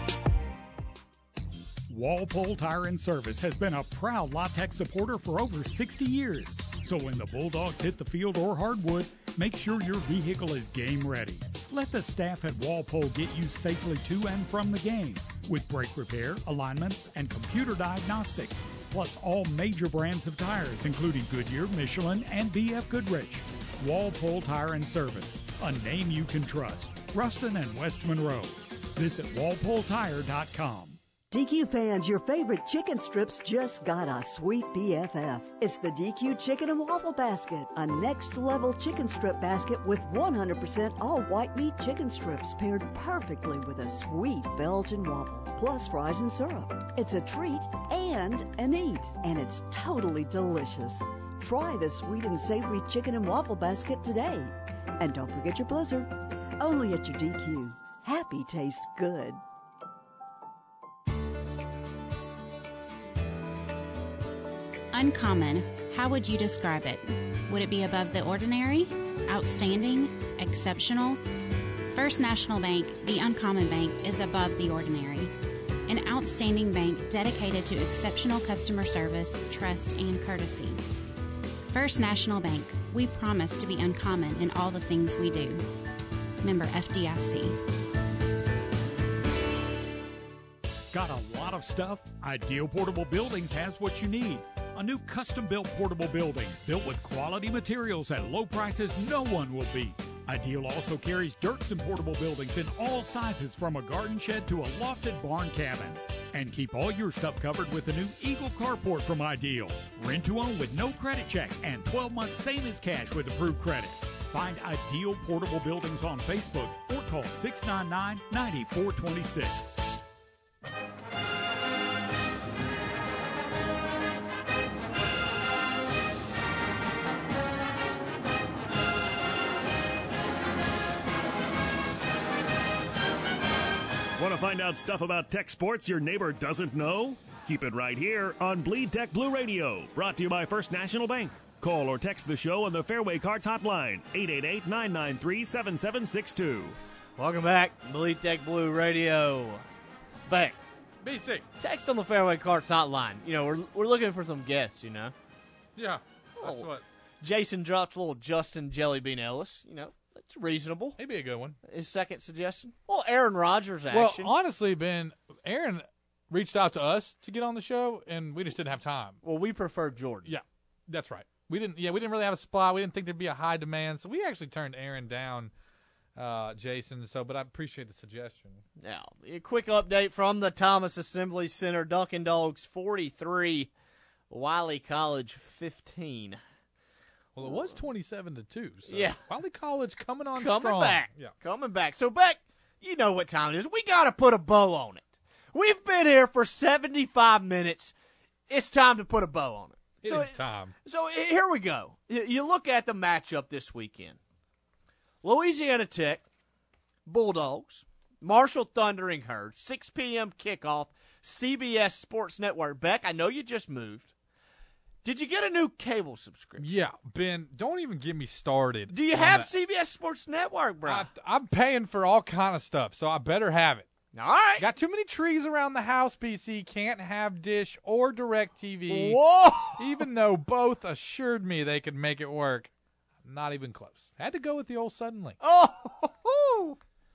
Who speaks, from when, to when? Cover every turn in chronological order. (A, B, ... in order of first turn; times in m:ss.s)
0:01.9-0:31.0 A
0:31.3-0:59.4 B
1:04.9-1:11.2 C
1:11.9-1:15.3 C
1:15.9-1:20.8 C
1:21.7-1:25.6 C
1:26.4-1:27.6 C
1:30.9-1:59.8 A
2:14.2-2:26.8 D
2:27.2-2:29.6 E
2:30.3-2:30.6 E
2:31.0-2:31.4 F
2:31.6-2:35.1 E
2:35.8-2:36.8 F
2:36.4-2:36.7 E
2:37.2-2:41.0 E
2:41.0-2:41.6 F
2:41.7-2:44.3 E
2:43.9-2:49.2 F
2:49.2-2:50.3 E
2:50.2-2:55.5 F
2:56.2-2:58.6 F
2:58.8-3:03.7 E
3:04.3-3:06.4 E
3:07.4-3:11.3 F
3:08.9-3:09.2 E
3:10.4-3:17.9 E
3:18.5-3:24.2 E
3:20.0-3:20.7 F
3:25.2-3:26.2 E
3:27.1-3:34.1 E
3:35.0-3:36.7 E
3:36.6-3:39.5 F
3:38.9-3:41.1 E
3:40.8-3:43.9 F
3:44.1-3:44.7 E
3:44.6-3:49.2 F
3:48.9-3:50.0 E
3:49.8-3:52.7 F
3:53.2-3:55.4 F
3:55.4-3:56.8 E